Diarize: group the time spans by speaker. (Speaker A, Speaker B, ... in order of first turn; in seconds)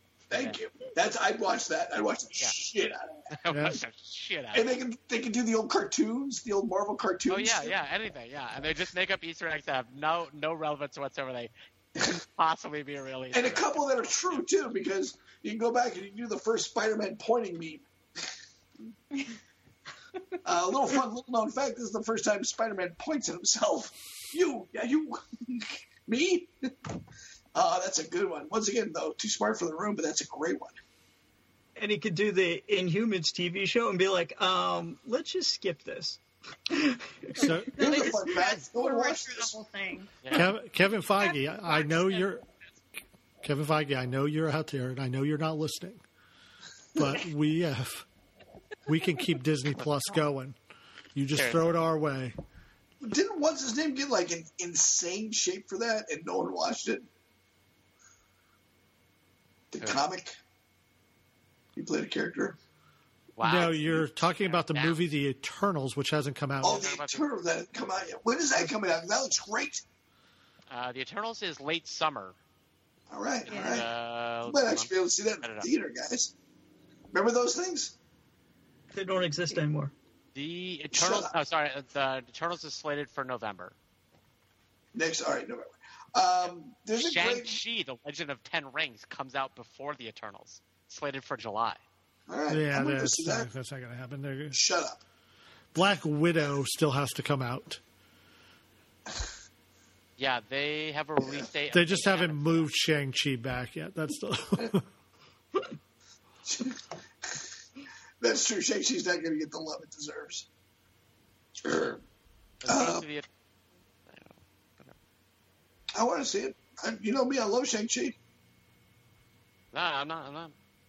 Speaker A: 0.3-3.1, 4.5-7.8, 13.3-17.9, 20.4-26.5, 27.5-30.8, 37.8-39.5, 53.0-57.1, 59.7-60.4, 61.7-62.5, 66.6-69.8, 73.1-73.9, 74.4-76.3, 77.1-77.9, 80.9-81.3, 84.9-87.5, 92.3-93.5, 94.5-95.0, 101.2-101.5, 106.4-107.4, 108.2-110.5, 111.6-112.0, 112.7-113.0, 115.9-118.2
Speaker B: 0.3-0.6, 3.3-4.8, 7.3-14.4, 40.2-40.5, 51.3-51.7, 63.4-65.0, 66.6-67.2, 70.7-72.3, 73.5-74.9, 75.4-75.7, 80.3-83.7, 86.4-91.8, 100.2-102.7, 112.6-113.2, 114.1-114.9, 119.7-120.5
Speaker C: 3.5-3.8, 37.3-37.7, 40.3-42.4, 43.4-46.0, 47.0-48.0, 48.9-50.6, 51.1-52.3, 63.4-67.0, 92.5-94.6, 95.7-97.8, 101.7-104.8
Speaker D: 31.8-37.6, 78.9-79.9
Speaker E: 37.7-40.3, 41.2-42.3, 73.5-73.8